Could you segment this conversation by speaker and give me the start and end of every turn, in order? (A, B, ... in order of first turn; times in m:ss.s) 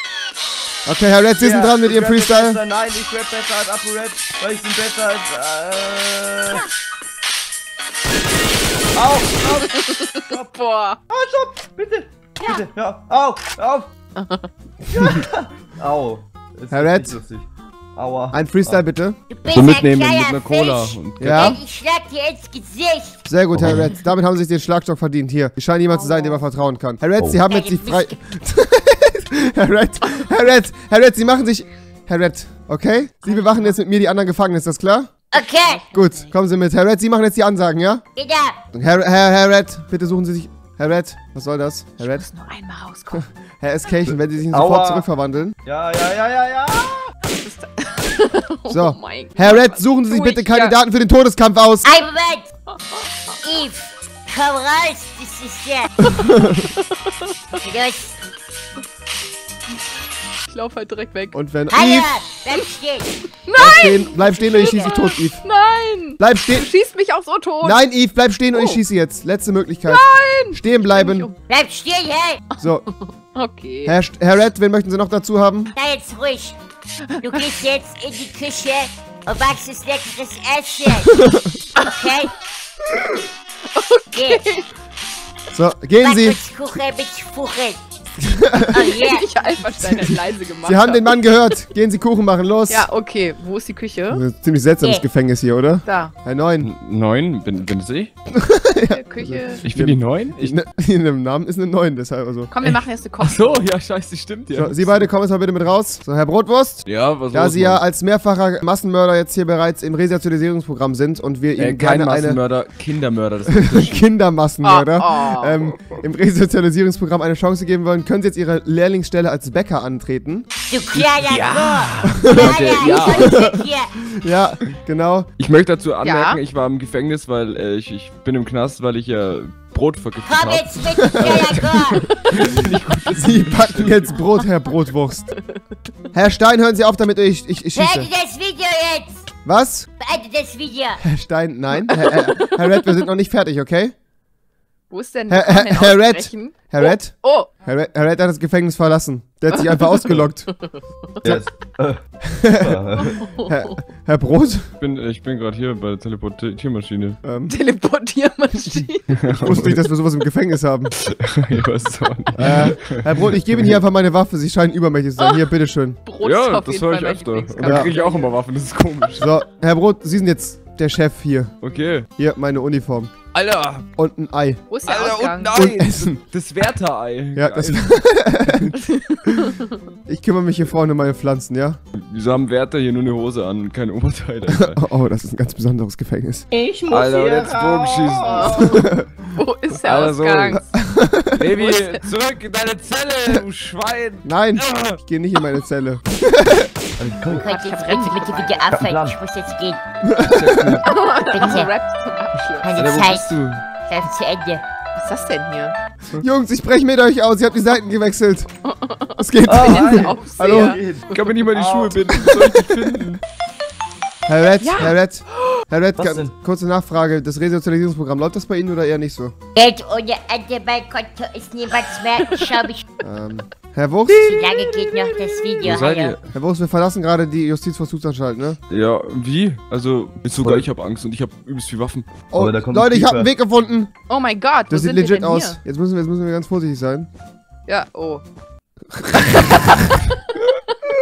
0:00.8-0:02.6 A
0:01.4-0:06.6 B
0:08.9-0:10.5 B
0:09.7-0:11.0 C
0:11.1-0:13.9 B
0:14.2-0:14.5 C
0:14.9-0:18.8 B
0:16.7-0:17.2 A
0:18.3-0:20.1 A
0:19.3-0:23.2 D
0:19.5-0:21.6 E
0:21.2-0:21.6 A
0:23.2-0:35.2 A
0:23.5-0:23.9 B
0:25.9-0:26.4 C
0:27.4-0:28.2 D
0:33.2-0:33.8 C
0:35.3-0:35.8 D
0:35.4-0:36.3 C
0:35.9-0:38.0 A
0:38.2-0:38.6 D
0:38.7-0:42.2 A
0:42.0-0:43.2 C
0:43.1-0:45.6 A
0:44.5-0:45.1 B
0:45.6-0:47.1 B
0:47.2-0:50.8 C
0:48.7-0:51.9 A
0:51.8-0:52.5 D
0:52.7-0:53.0 C
0:53.4-0:56.0 D
0:56.1-0:57.6 C
0:56.1-0:56.5 A
0:57.6-0:58.2 D
1:00.5-1:01.3 C
1:01.3-1:02.1 A
1:01.7-1:04.9 D
1:03.4-1:07.8 C
1:03.6-1:05.4 A
1:06.2-1:06.7 A
1:07.6-1:11.3 A
1:08.5-1:08.8 C
1:09.9-1:11.4 C
1:11.5-1:12.4 D
1:12.6-1:12.9 A
1:12.9-1:14.0 C
1:13.8-1:15.7 A
1:15.7-1:16.6 D
1:17.2-1:21.2 D
1:21.1-1:21.5 A
1:21.8-1:22.3 D
1:23.7-1:24.7 C
1:24.1-1:24.5 D
1:25.5-1:26.4 A
1:26.0-1:27.8 D
1:28.2-1:28.8 A
1:28.7-1:29.2 D
1:28.8-1:31.4 C
1:29.8-1:32.9 A
1:32.7-1:34.2 C
1:34.1-1:36.7 A
1:35.8-1:36.1 C
1:36.6-1:38.1 E
1:38.3-1:42.5 A
1:38.9-1:39.6 C
1:39.6-1:40.6 E
1:42.5-1:43.7 C
1:42.6-1:45.0 E
1:44.5-1:52.4 A
1:46.8-1:47.8 E
1:51.6-1:54.0 E
1:53.4-2:00.5 A
1:54.6-1:55.6 C
2:00.7-2:03.9 D
2:00.9-2:03.4 E
2:01.5-2:01.9 B
2:02.0-2:03.6 A
2:04.1-2:05.3 A
2:05.4-2:14.2 E
2:06.0-2:06.4 C
2:10.2-2:12.0 D
2:11.0-2:11.3 A
2:13.1-2:15.3 A
2:16.1-2:18.1 A
2:17.7-2:19.3 D
2:19.4-2:19.9 A
2:20.0-2:21.0 D
2:21.0-2:23.9 A
2:21.9-2:22.5 C
2:24.9-2:27.5 C
2:25.3-2:30.5 A
2:29.5-2:30.8 C
2:31.2-2:32.0 B
2:32.3-2:32.8 A
2:32.6-2:33.2 B
2:33.1-2:33.5 C
2:33.4-2:34.7 A
2:34.8-2:37.2 E
2:37.2-2:37.6 A
2:37.5-2:39.1 C
2:39.1-2:39.8 E
2:39.4-2:40.9 A
2:41.0-2:43.2 E
2:42.4-2:46.0 A
2:45.2-2:45.5 C
2:46.0-2:48.3 C
2:46.2-2:49.3 E
2:47.6-2:47.9 A
2:49.2-2:51.5 A
2:51.6-2:52.1 E
2:52.2-2:53.1 A
2:53.3-2:53.8 E
2:54.0-2:54.6 A
2:54.7-2:55.6 C
2:54.8-2:57.9 E
2:55.5-2:56.2 A
2:57.3-2:58.7 A
2:58.7-2:59.7 C
3:00.1-3:01.8 A
3:01.9-3:04.8 E
3:04.5-3:06.4 A
3:06.5-3:08.9 B
3:06.9-3:08.8 E
3:08.3-3:08.6 C
3:08.6-3:09.1 A
3:09.3-3:10.6 C
3:09.7-3:10.6 E
3:10.5-3:11.5 A
3:11.4-3:15.0 E
3:11.6-3:12.0 C
3:14.2-3:16.7 A
3:17.0-3:17.5 B
3:17.3-3:19.8 D
3:17.4-3:18.6 C
3:18.6-3:19.2 B
3:20.0-3:20.8 A
3:20.2-3:20.9 E
3:20.8-3:22.7 C
3:21.3-3:21.7 D
3:22.6-3:23.3 D
3:22.8-3:23.6 E
3:23.8-3:24.6 D
3:24.9-3:25.8 C
3:26.2-3:28.5 A
3:28.6-3:31.2 C
3:29.2-3:30.8 A
3:29.4-3:32.0 B
3:31.1-3:33.2 E
3:32.2-3:32.9 A
3:34.3-3:39.4 A
3:34.6-3:35.6 C
3:36.0-3:36.3 B
3:39.5-3:42.9 D
3:43.0-3:44.4 A
3:44.1-3:46.2 D
3:44.5-3:45.1 C
3:45.6-3:46.2 E
3:46.3-3:48.6 A
3:48.7-3:52.1 E
3:50.4-3:50.7 B
3:52.3-3:53.9 A
3:52.3-3:53.3 B
3:54.1-3:55.6 C
3:54.7-3:57.1 A
3:57.7-3:58.2 C
3:59.0-3:59.8 A